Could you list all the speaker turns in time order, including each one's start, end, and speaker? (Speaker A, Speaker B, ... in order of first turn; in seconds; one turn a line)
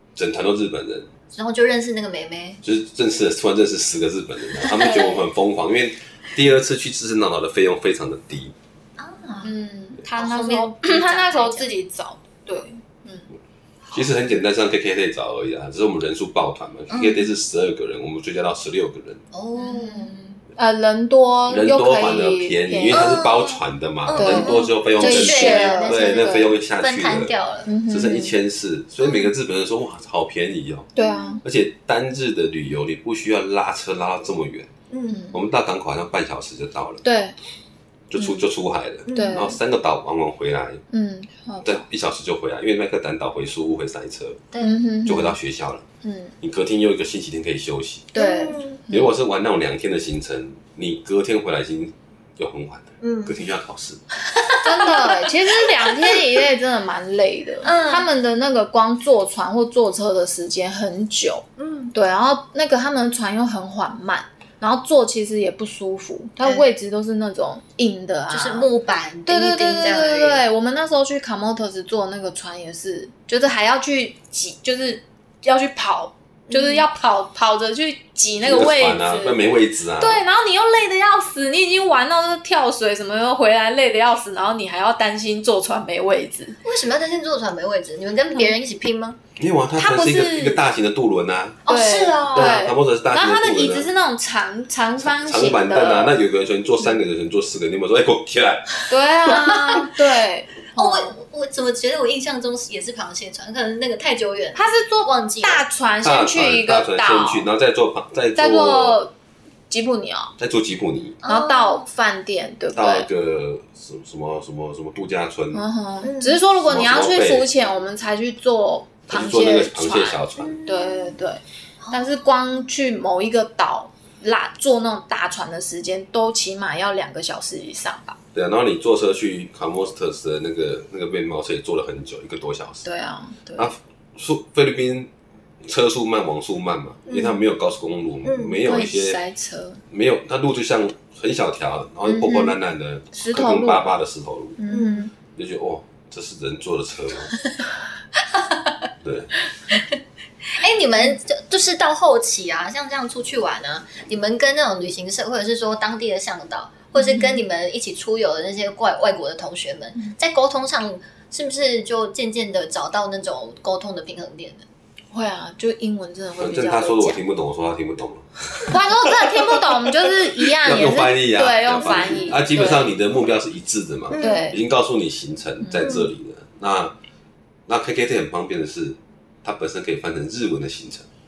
Speaker A: 0.1-1.1
Speaker B: 1.3-2.6
Speaker A: 2.6-8.5
Speaker B: 4.7-5.3
Speaker B: 9.0-9.5
Speaker C: 9.4-13.3
Speaker B: 10.2-11.7
Speaker A: 13.9-19.2
Speaker B: 16.9-17.3
Speaker B: 19.3-20.1
Speaker C: 19.6-23.2
Speaker A: 21.5-27.3
Speaker B: 22.9-27.7
Speaker C: 24.1-26.5
Speaker C: 27.6-28.3
Speaker A: 27.9-30.9
Speaker B: 29.0-29.3
Speaker C: 30.9-31.4
Speaker B: 31.0-31.3
Speaker A: 31.4-34.7
Speaker B: 34.9-35.2
Speaker C: 35.1-35.4
Speaker A: 35.3-37.0
Speaker C: 37.0-37.4
Speaker A: 38.1-40.8
Speaker B: 39.0-39.5
Speaker C: 39.1-39.5
Speaker C: 40.9-41.8
Speaker A: 41.6-44.4
Speaker B: 44.5-44.8
Speaker C: 44.6-45.4
Speaker A: 45.0-45.8
Speaker C: 46.0-46.3
Speaker A: 46.4-48.1
Speaker B: 48.1-48.8
Speaker C: 48.1-49.1
Speaker A: 48.9-54.0
Speaker B: 53.0-53.5
Speaker C: 54.6-68.7
Speaker B: 54.8-55.2
Speaker B: 57.6-58.1
Speaker B: 61.6-61.9
Speaker B: 68.3-70.4
Speaker C: 69.2-79.4
Speaker B: 76.5-76.8
Speaker A: 78.4-80.2
Speaker C: 80.0-86.6
Speaker B: 86.6-89.2
Speaker A: 89.4-91.6
Speaker C: 89.8-90.6
Speaker B: 91.7-92.6
Speaker C: 91.7-96.2
Speaker A: 92.3-93.9
Speaker A: 95.0-99.5
Speaker C: 98.9-101.1
Speaker B: 100.7-105.6
Speaker C: 104.5-107.5
Speaker A: 106.0-109.0
Speaker C: 108.3-109.1
Speaker C: 109.7-110.3
Speaker A: 110.4-111.2
Speaker B: 111.2-111.8
Speaker C: 111.2-113.1
Speaker A: 112.7-115.6
Speaker C: 115.5-121.4
Speaker B: 116.0-116.4
Speaker A: 116.6-117.5
Speaker A: 119.1-120.6
Speaker B: 120.4-121.2
Speaker B: 121.8-122.2
Speaker C: 121.9-128.2
Speaker A: 128.3-132.8
Speaker C: 132.8-133.7
Speaker A: 133.6-135.1
Speaker A: 135.6-139.2
Speaker B: 137.1-137.4
Speaker B: 138.2-138.6
Speaker C: 138.6-139.8
Speaker A: 139.9-144.6
Speaker C: 142.1-142.5
Speaker C: 143.1-143.9
Speaker C: 144.6-145.1
Speaker B: 144.7-145.1
Speaker A: 145.3-147.3
Speaker A: 149.0-149.3
Speaker B: 150.5-164.6
Speaker C: 156.9-157.4
Speaker C: 165.1-167.2
Speaker A: 166.4-169.6
Speaker C: 168.7-172.9
Speaker A: 170.4-176.9
Speaker B: 174.1-174.4
Speaker C: 174.1-174.6
Speaker C: 175.6-176.0
Speaker B: 175.8-176.1
Speaker A: 177.7-181.1